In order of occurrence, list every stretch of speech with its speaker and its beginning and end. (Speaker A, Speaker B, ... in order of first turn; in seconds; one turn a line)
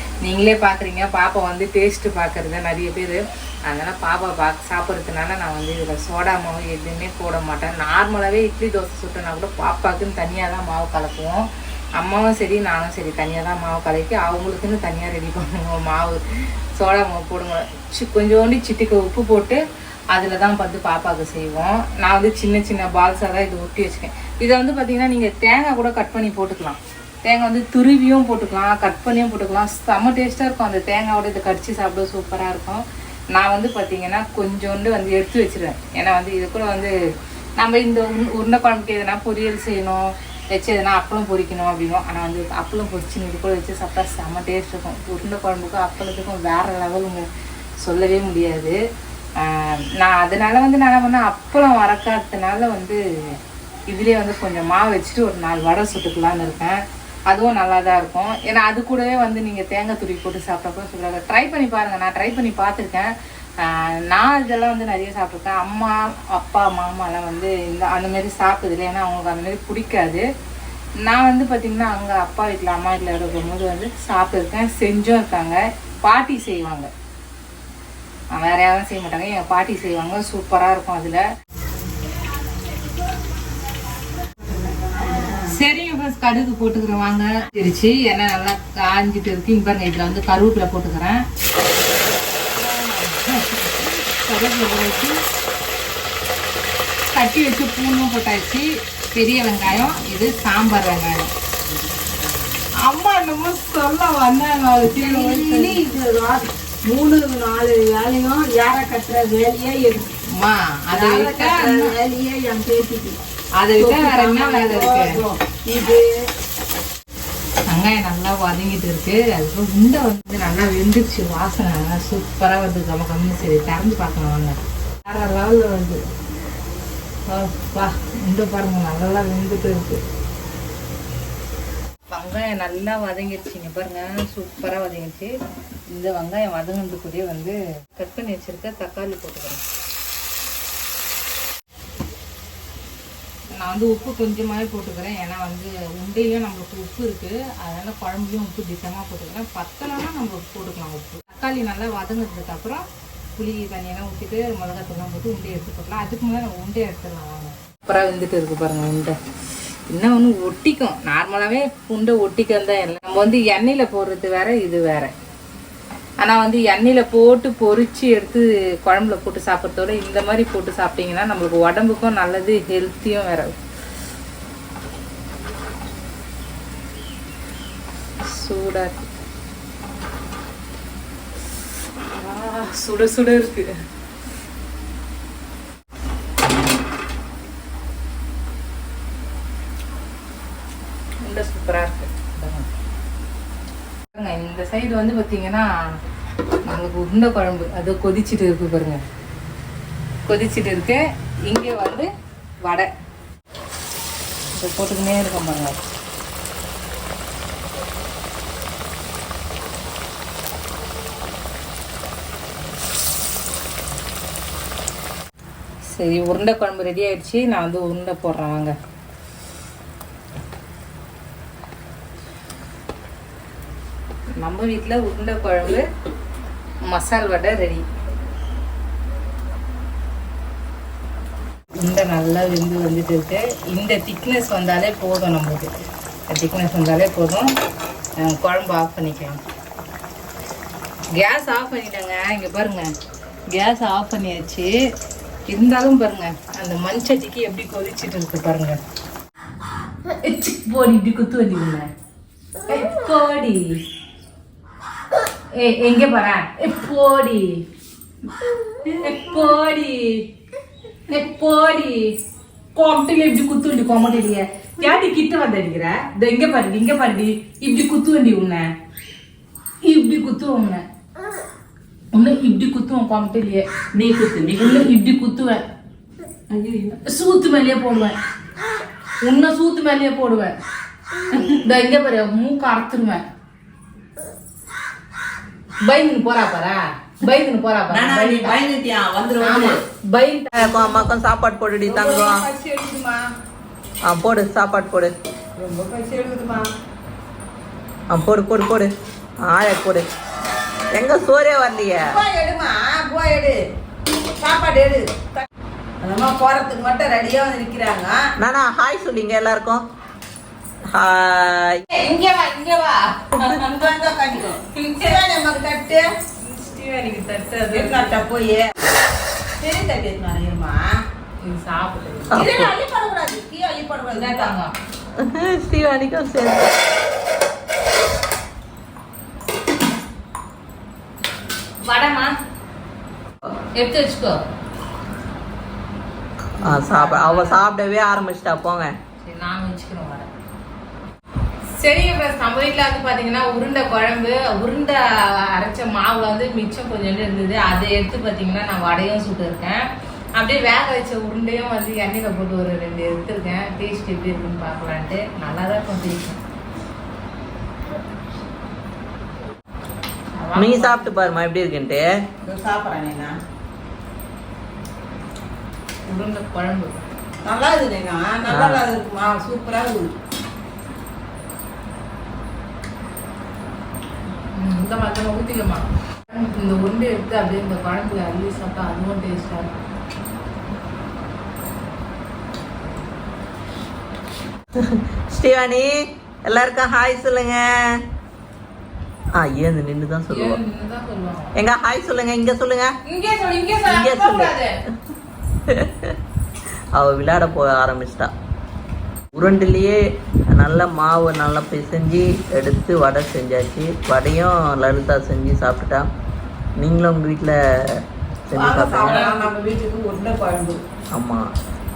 Speaker A: 0.2-16.2
Speaker A: 16.8-19.6
Speaker A: 20.1-36.9
Speaker A: 37.6-47.3
Speaker A: 47.8-48.8
Speaker A: 49.4-53.4
Speaker A: 53.9-70.2
Speaker A: 71.0-76.9
Speaker A: 78.3-81.2
Speaker B: 85.0-85.5
Speaker A: 85.5-91.2
Speaker A: 92.5-95.2
Speaker A: 97.1-101.3
Speaker A: 102.8-105.8
Speaker B: 104.9-110.1
Speaker A: 110.4-111.9
Speaker B: 110.9-113.2
Speaker A: 113.6-115.2
Speaker B: 113.8-116.1
Speaker A: 117.7-126.0
Speaker A: 127.3-130.0
Speaker A: 132.1-135.3
Speaker A: 135.9-139.6
Speaker A: 143.6-152.8
Speaker A: 153.4-159.2
Speaker A: 159.9-165.1
Speaker A: 166.2-173.5
Speaker A: 178.3-179.1
Speaker A: 182.2-183.7
Speaker A: 191.2-192.7
Speaker A: 194.1-195.9
Speaker A: 196.7-199.0
Speaker A: 200.3-202.1
Speaker A: 204.6-205.8
Speaker A: 215.9-218.7
Speaker A: 224.4-225.8
Speaker A: 226.9-227.8
Speaker A: 231.8-235.7
Speaker A: 236.3-237.5
Speaker A: 238.2-239.4
Speaker A: 241.2-242.9
Speaker A: 243.5-244.7
Speaker A: 245.5-248.8
Speaker A: 250.1-251.8
Speaker A: 252.7-253.8
Speaker A: 255.6-257.6
Speaker A: 258.9-260.2
Speaker A: 261.1-262.1
Speaker A: 262.7-268.7
Speaker A: 269.8-270.8
Speaker A: 272.1-273.7
Speaker C: 273.9-274.9
Speaker A: 274.6-275.6
Speaker A: 276.9-278.2
Speaker A: 279.2-280.6
Speaker A: 281.3-283.2
Speaker A: 285.8-288.6
Speaker C: 287.9-289.8
Speaker A: 289.4-291.1
Speaker B: 289.4-289.7
Speaker C: 290.6-292.4
Speaker B: 291.8-293.2
Speaker C: 294.1-295.1
Speaker B: 295.6-296.7
Speaker C: 298.1-298.9
Speaker C: 299.4-300.1
Speaker C: 300.9-302.1
Speaker B: 302.0-303.6
Speaker B: 304.4-305.3
Speaker B: 306.0-308.2
Speaker C: 308.4-309.8
Speaker C: 310.9-311.8
Speaker A: 311.9-313.9
Speaker B: 313.6-316.1
Speaker A: 314.7-315.2
Speaker A: 316.4-318.1
Speaker B: 317.7-318.7
Speaker B: 319.6-320.8
Speaker A: 321.4-322.4
Speaker C: 322.3-322.7
Speaker B: 322.3-324.5
Speaker A: 324.1-324.7
Speaker C: 325.2-326.7
Speaker A: 331.8-332.3
Speaker A: 333.8-334.4
Speaker C: 336.6-338.9
Speaker A: 336.6-337.6
Speaker A: 339.2-340.3
Speaker A: 341.8-349.8
Speaker A: 350.4-356.4
Speaker A: 360.4-361.2
Speaker C: 360.6-362.1
Speaker B: 362.4-363.3
Speaker A: 366.1-367.0
Speaker B: 367.4-370.1
Speaker C: 368.5-368.8
Speaker A: 374.6-379.7
Speaker C: 384.8-387.9
Speaker C: 389.3-390.6
Speaker A: 390.3-391.6
Speaker C: 391.6-392.9
Speaker A: 393.1-394.7
Speaker C: 393.9-394.5
Speaker C: 395.7-396.2
Speaker C: 396.9-398.3
Speaker C: 399.3-400.0
Speaker C: 400.5-406.1
Speaker C: 406.8-407.6
Speaker C: 408.5-409.3
Speaker B: 408.5-410.8
Speaker C: 411.1-411.4